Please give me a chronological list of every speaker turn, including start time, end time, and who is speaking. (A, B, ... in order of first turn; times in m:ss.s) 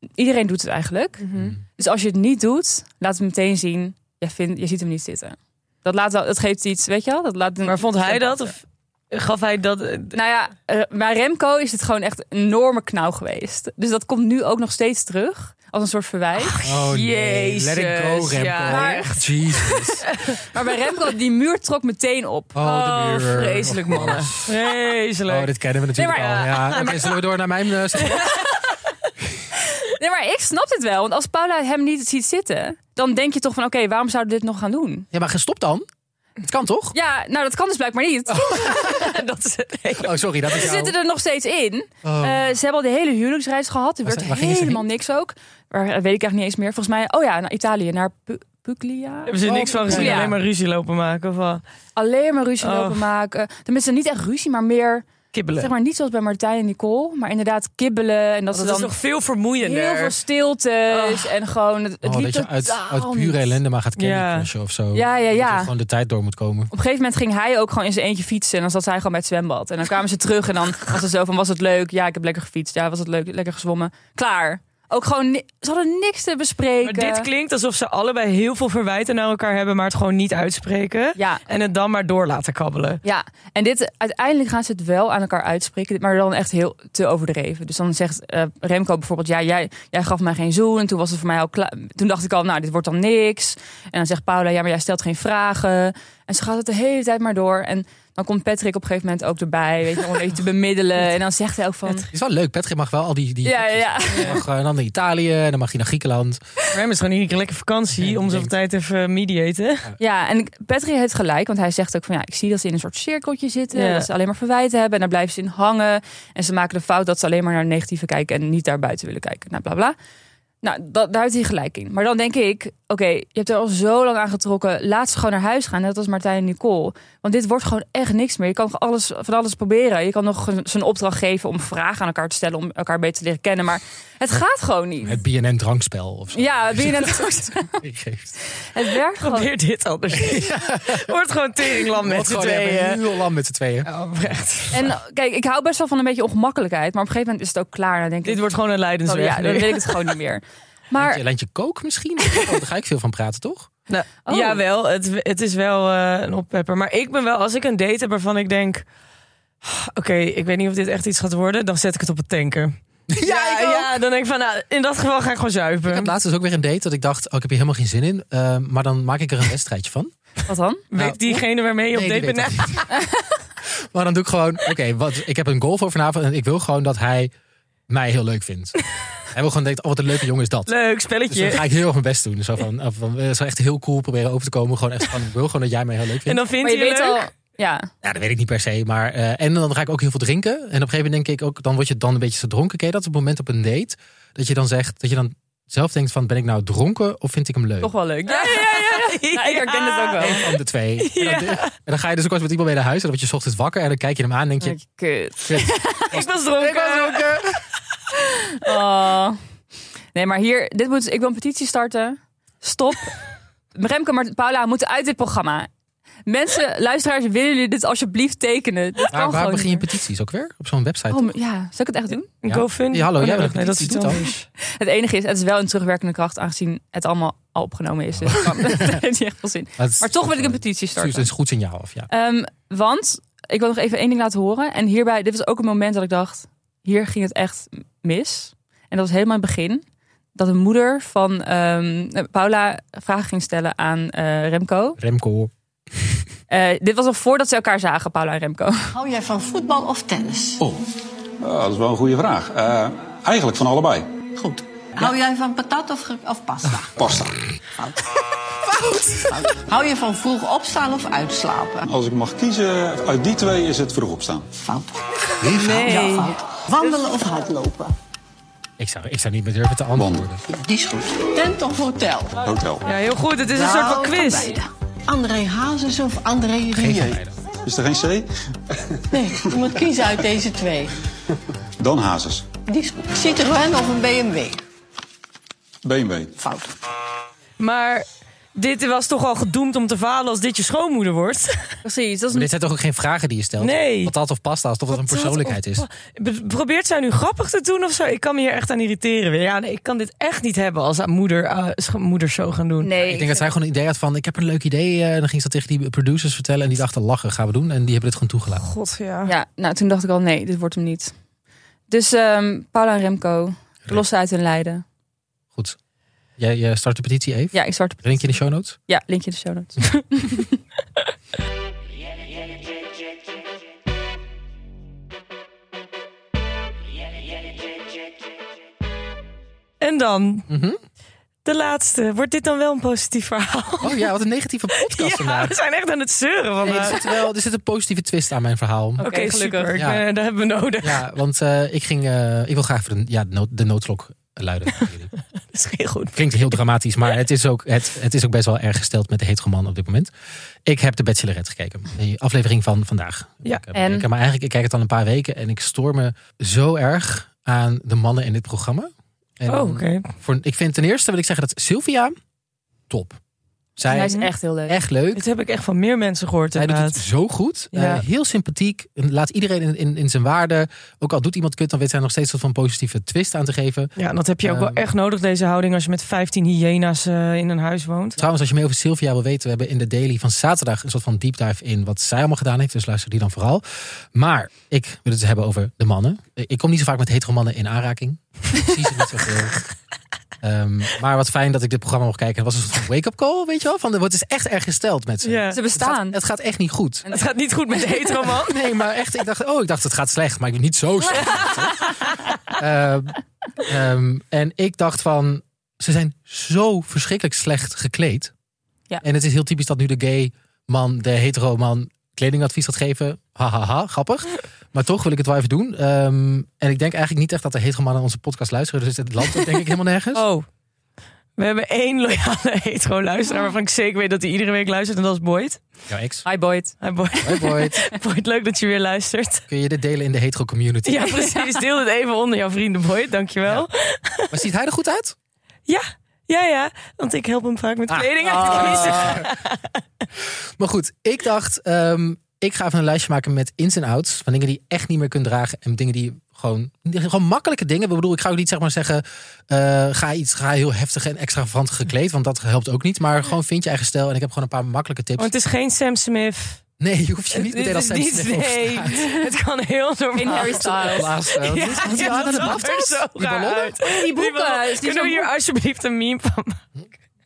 0:00.2-0:08.5 A
0:01.2-0:01.6 B
0:07.6-0:10.2 B
0:10.1-0:16.6 A
0:16.4-0:20.4 B
0:16.6-0:20.0 C
0:18.7-0:19.2 A
0:20.4-0:22.6 A
0:22.5-0:24.5 C
0:22.6-0:25.5 B
0:25.3-0:28.3 C
0:26.0-0:27.2 A
0:28.0-0:28.6 B
0:28.1-0:28.8 A
0:29.6-0:35.1 A
0:35.1-0:35.8 C
0:36.4-0:37.0 C
0:36.9-0:39.1 A
0:38.3-0:39.1 C
0:38.4-0:40.1 B
0:40.0-0:41.0 C
0:40.5-0:50.4 A
0:42.0-0:42.4 C
0:44.0-0:44.9 C
0:49.3-0:51.6 B
0:49.5-0:50.3 C
0:52.0-0:55.1 A
0:52.6-0:53.0 B
0:55.3-0:55.7 B
0:55.6-0:58.9 A
0:58.5-1:00.2 B
0:59.6-1:03.5 A
1:00.9-1:01.3 B
1:02.0-1:06.7 C
1:04.0-1:04.5 B
1:04.9-1:05.7 A
1:06.7-1:17.3 A
1:16.8-1:23.0 B
1:21.2-1:21.4 A
1:23.0-1:42.1 A
1:42.1-1:46.4 C
1:43.4-1:44.4 A
1:44.1-1:44.4 B
1:46.7-1:49.9 B
1:48.0-1:48.5 C
1:50.0-2:00.0 A
1:53.7-1:54.1 B
2:00.6-2:15.2 A
2:15.0-2:18.4 C
2:16.3-2:17.8 A
2:18.6-2:19.5 A
2:19.2-2:23.2 B
2:20.2-2:21.1 C
2:21.6-2:23.9 C
2:23.8-2:24.9 B
2:24.7-2:28.4 A
2:28.2-2:30.1 B
2:29.0-2:31.2 A
2:31.0-2:33.7 C
2:33.9-2:38.8 B
2:34.2-2:34.6 A
2:39.6-2:46.1 B
2:43.1-2:43.9 C
2:45.9-2:50.1 C
2:50.5-2:50.8 A
2:50.9-2:52.8 B
2:51.0-2:52.9 C
2:53.0-2:53.3 A
2:53.9-2:57.3 C
2:57.9-2:58.8 C
2:59.3-3:00.7 C
3:00.7-3:01.7 B
3:01.3-3:06.4 C
3:06.3-3:07.3 B
3:06.6-3:07.9 A
3:08.0-3:17.9 C
3:17.8-3:20.6 A
3:18.3-3:20.4 B
3:20.2-3:24.8 C
3:21.0-3:21.7 B
3:24.6-3:26.2 A
3:25.4-3:27.6 C
3:26.1-3:27.3 B
3:28.1-3:29.4 A
3:30.1-3:33.2 A
3:33.8-3:35.7 A
3:36.3-3:39.8 A
3:39.1-3:41.3 C
3:41.1-3:42.3 A
3:42.4-3:44.5 B
3:42.5-3:44.2 C
3:44.6-3:51.3 A
3:48.2-3:49.0 C
3:49.8-3:52.1 C
3:52.1-3:59.8 A
4:00.4-4:05.0 A
4:05.0-4:06.2 C
4:06.5-4:09.0 A
4:08.9-4:10.6 D
4:11.4-4:14.2 E
4:14.3-4:17.0 D
4:17.0-4:17.4 E
4:17.8-4:18.1 D
4:18.7-4:21.9 D
4:18.8-4:19.1 C
4:21.9-4:24.5 E
4:24.6-4:27.9 D
4:25.4-4:25.8 E
4:25.4-4:26.4 B
4:28.8-4:30.4 C
4:30.0-4:30.3 E
4:30.4-4:32.4 D
4:32.4-4:32.9 E
4:32.8-4:34.6 B
4:33.5-4:37.2 D
4:36.7-4:37.4 C
4:37.6-4:38.3 E
4:39.1-4:40.9 D
4:41.8-4:42.5 E
4:42.6-4:44.6 D
4:45.8-4:46.4 E
4:46.4-4:46.7 D
4:47.6-4:51.7 B
4:51.8-4:52.5 A
4:52.3-4:55.8 C
4:53.6-4:54.1 B
4:54.9-5:02.9 B
5:02.8-5:03.5 A
5:03.0-5:08.6 C
5:08.6-5:09.3 B
5:09.3-5:11.1 A
5:11.9-5:14.8 A
5:16.4-5:18.8 C
5:17.5-5:18.3 A
5:18.9-5:20.6 A
5:29.8-5:30.5 B
5:30.5-5:30.8 C
5:31.4-5:34.0 B
5:33.8-5:35.6 C
5:34.7-5:37.0 B
5:36.6-5:39.0 C
5:39.0-5:39.8 A
5:39.0-5:41.0 B
5:39.8-5:40.0 C
5:40.8-5:45.1 C
5:45.5-5:46.6 B
5:46.1-5:50.1 C
5:50.6-6:02.2 C
5:53.7-5:54.1 A
5:59.5-6:00.1 B
6:02.9-6:03.2 C
6:03.8-6:05.2 C
6:03.8-6:04.8 A
6:03.9-6:04.3 B
6:05.2-6:07.0 B
6:06.6-6:13.9 C
6:07.7-6:08.0 B
6:14.0-6:18.2 B
6:14.4-6:14.9 C
6:18.2-6:29.6 C
6:30.4-6:37.0 C
6:35.2-6:35.6 B
6:35.5-6:36.2 A
6:37.1-6:38.6 B
6:38.3-6:41.9 C
6:41.2-6:42.0 A
6:42.5-6:48.3 C
6:49.0-7:00.2 C
7:00.1-7:00.5 B
7:01.4-7:05.6 B
7:05.9-7:06.2 C
7:06.2-7:07.4 A
7:06.8-7:09.4 B
7:07.2-7:07.8 C
7:09.5-7:11.1 C
7:10.8-7:14.4 B
7:11.2-7:11.4 A
7:14.3-7:15.2 C
7:15.7-7:19.8 B
7:17.9-7:19.3 C
7:18.2-7:19.3 A
7:20.6-7:35.3 C
7:35.2-7:36.6 B
7:36.8-7:39.2 C
7:37.3-7:46.6 B
7:40.2-7:41.2 A
7:40.4-7:43.8 C
7:43.8-7:45.3 A